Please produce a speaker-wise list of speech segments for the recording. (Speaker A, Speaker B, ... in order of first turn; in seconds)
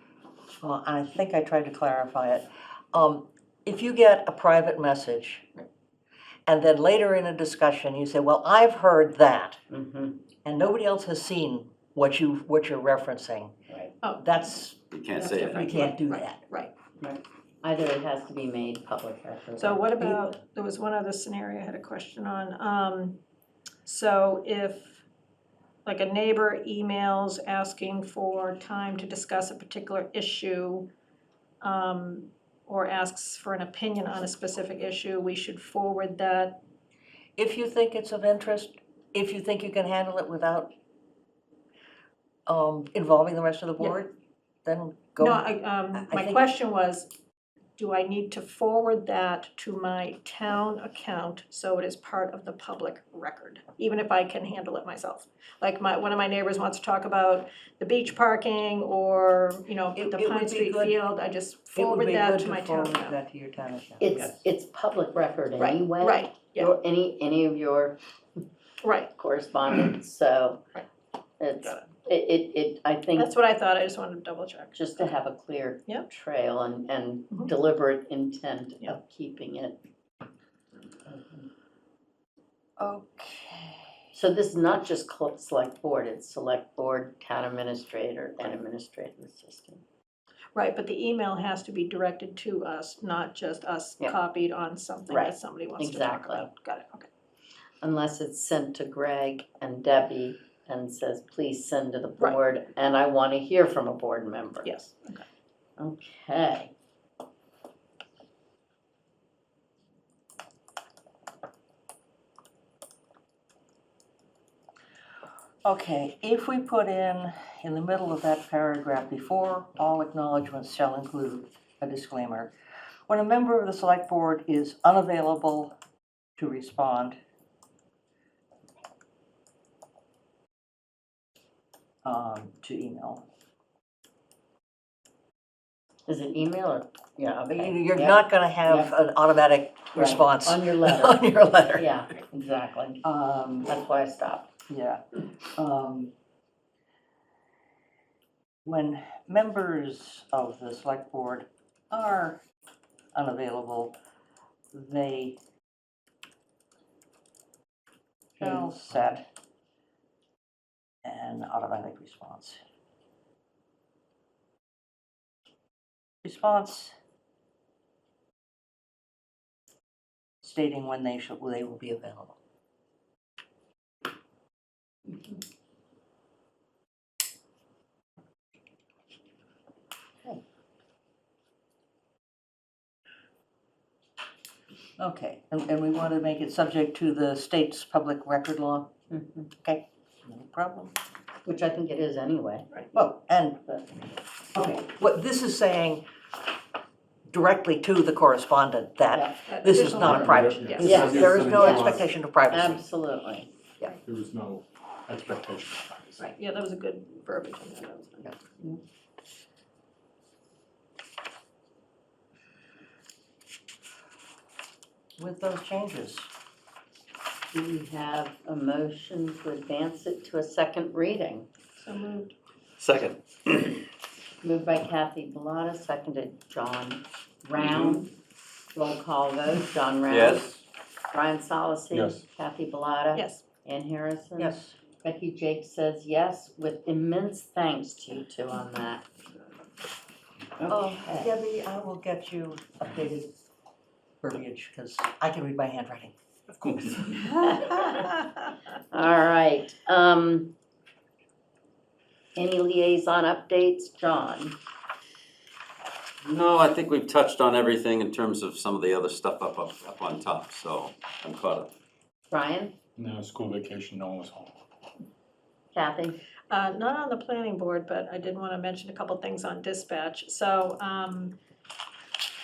Speaker A: 0.6-5.5, 6.5-9.6, 10.4-13.5, 14.2-14.8, 15.5-16.4, 20.0-20.3, 37.4-40.7, 42.5-46.4, 60.0-61.0, 61.7-64.5, 82.8-83.9, 115.7-122.5, 123.1-125.8, 126.4-127.2, 132.0-133.2, 137.5-141.9, 143.0-143.7, 144.7-145.0, 145.6-146.1, 148.7-152.4, 153.1-153.9, 154.7-155.4, 158.4-159.2, 161.0-162.6, 166.2-166.9, 170.4-172.4, 185.0-188.9, 189.6-190.9, 192.9-193.6, 194.5-196.0, 197.3-202.8, 215.2-216.3, 234.4-234.8, 240.7-243.3, 244.2-246.2
Speaker B: 9.7-10.2, 17.0-19.9, 64.0-68.0, 69.2-70.6, 71.4-73.3, 74.7-79.8, 81.1-81.5, 84.1-89.8, 95.1-96.5, 97.8-104.8, 105.8-106.7, 136.1-138.9, 139.9-143.0, 143.6-144.5, 158.4-158.7, 189.1-189.5, 191.4-192.7, 200.8-203.5, 217.5-221.5, 224.4-228.1, 228.7-230.6, 231.1-239.1, 240.6-241.3, 247.4-248.2, 248.9-250.5, 252.4-254.6, 262.3-262.8, 265.7-266.2
Speaker C: 14.9-15.7, 222.8-223.8, 227.6-227.9, 230.1-230.6, 256.2-261.7
Speaker D: 15.2-16.7, 19.6-23.2, 23.9-25.0, 25.9-30.9, 31.6-36.6, 45.2-47.1, 47.8-63.2, 65.6-66.7, 68.8-69.1, 71.6-71.9, 73.2-75.1, 90.5-97.1, 104.6-105.2, 199.5-201.1, 206.2-208.4, 221.8-222.3, 233.1-233.4, 266.5-271.4
Speaker E: 200.0-202.0, 204.0-206.3, 231.9-232.2, 246.6-247.2, 263.0-264.6